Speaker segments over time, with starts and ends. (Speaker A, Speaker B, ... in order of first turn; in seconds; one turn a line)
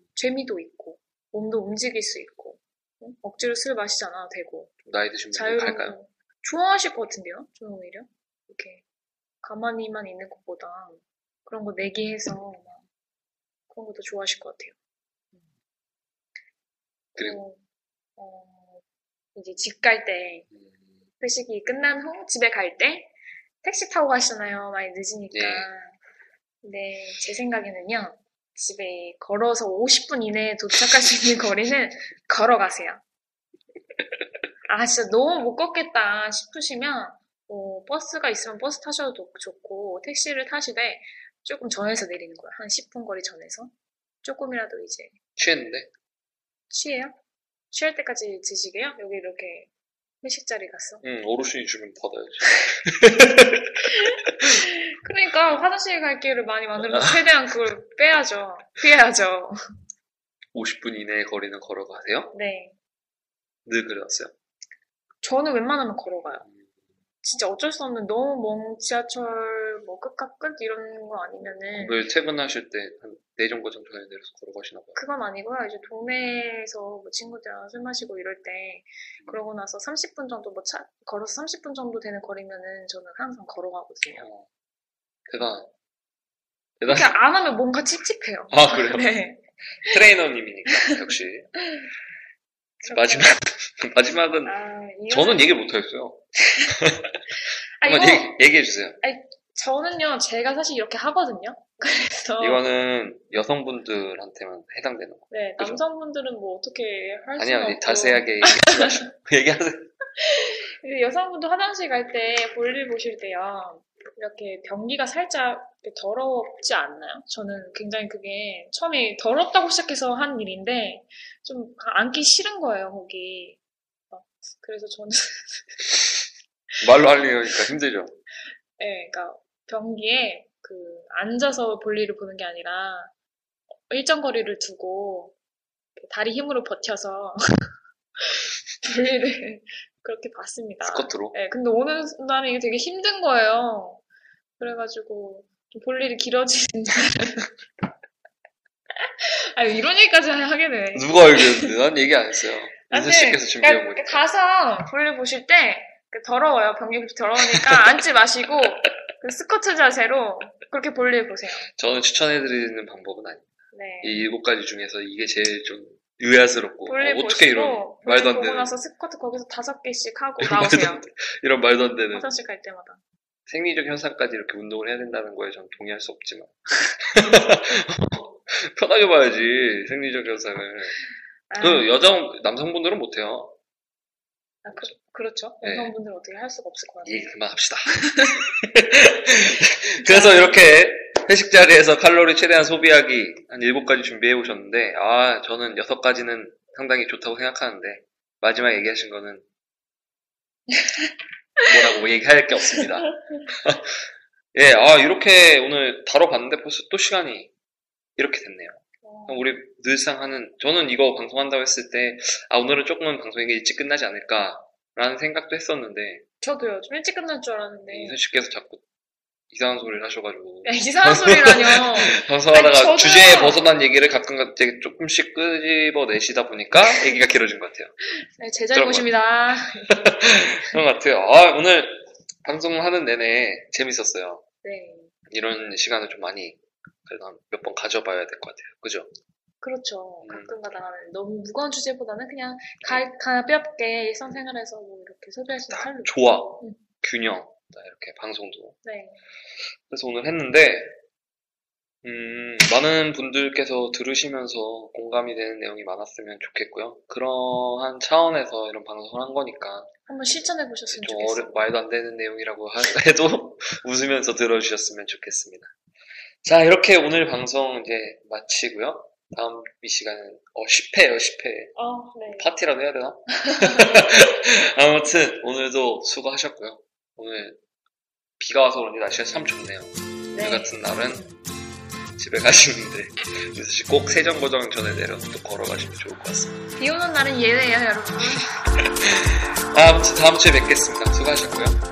Speaker A: 0.1-4.7
Speaker B: 4.8-6.0
Speaker A: 5.3-8.8
Speaker A: 9.4-12.8
Speaker A: 13.7-14.7
Speaker A: 17.2-17.6
Speaker A: 18.2-18.8
Speaker A: 19.3-20.5
Speaker B: 20.5-20.8
Speaker A: 21.2-25.9
Speaker B: 25.3-25.7
Speaker A: 26.6-33.0
Speaker A: 34.7-43.7
Speaker A: 44.2-45.1
Speaker B: 45.4-45.9
Speaker A: 46.7-47.1
Speaker A: 47.7-49.7
Speaker A: 50.2-51.0
Speaker B: 51.0-53.8
Speaker A: 53.8-59.5
Speaker B: 56.9-57.3
Speaker B: 60.5-62.3
Speaker A: 62.3-62.7
Speaker B: 63.6-64.3
Speaker A: 65.2-66.5
Speaker A: 67.2-72.0
Speaker B: 71.7-75.0
Speaker A: 75.0-84.3
Speaker B: 84.2-84.4
Speaker B: 85.3-85.7
Speaker B: 86.8-87.1
Speaker A: 86.9-90.0
Speaker B: 88.5-89.1
Speaker B: 89.8-91.5
Speaker B: 92.8-94.5
Speaker A: 92.8-93.3
Speaker A: 94.4-95.5
Speaker B: 95.1-97.2
Speaker A: 96.5-96.7
Speaker A: 97.8-98.4
Speaker B: 97.8-99.0
Speaker A: 99.0-102.6
Speaker B: 102.4-105.8
Speaker A: 105.3-109.1
Speaker B: 107.4-109.9
Speaker A: 110.2-123.6
Speaker A: 124.1-125.8
Speaker B: 126.8-128.1
Speaker A: 128.8-133.1
Speaker A: 133.9-135.3
Speaker A: 135.9-144.0
Speaker B: 140.8-141.4
Speaker A: 144.6-147.5
Speaker A: 149.0-151.7
Speaker B: 150.9-154.2
Speaker A: 152.9-161.7
Speaker B: 157.5-157.8
Speaker B: 161.8-163.4
Speaker A: 163.7-164.2
Speaker B: 164.0-168.7
Speaker A: 166.8-171.0
Speaker B: 170.4-172.2
Speaker A: 172.1-173.0
Speaker B: 173.5-181.0
Speaker A: 181.5-181.9
Speaker B: 181.6-183.5
Speaker A: 184.6-187.3
Speaker B: 185.6-185.9
Speaker B: 187.0-199.4
Speaker A: 188.0-188.4
Speaker A: 190.0-190.6
Speaker B: 201.6-203.9
Speaker A: 202.8-203.4
Speaker B: 204.5-207.5
Speaker B: 208.2-216.2
Speaker A: 209.0-209.4
Speaker A: 216.4-218.2
Speaker B: 217.9-218.8
Speaker B: 219.5-227.9
Speaker A: 220.6-223.6
Speaker A: 228.1-230.8
Speaker B: 228.7-229.1
Speaker B: 229.9-234.4
Speaker A: 234.6-235.1
Speaker B: 235.3-239.1
Speaker A: 239.6-246.8
Speaker B: 240.2-240.5
Speaker B: 245.7-248.8
Speaker A: 248.8-249.2
Speaker B: 249.9-250.9
Speaker B: 252.0-259.9
Speaker A: 260.1-261.7
Speaker B: 260.9-265.7
Speaker B: 266.4-271.7
Speaker A: 271.8-272.5
Speaker B: 272.3-277.6
Speaker A: 273.4-274.0
Speaker B: 278.4-281.3
Speaker A: 280.3-280.7
Speaker B: 282.2-286.6
Speaker A: 286.8-288.6
Speaker B: 288.8-291.8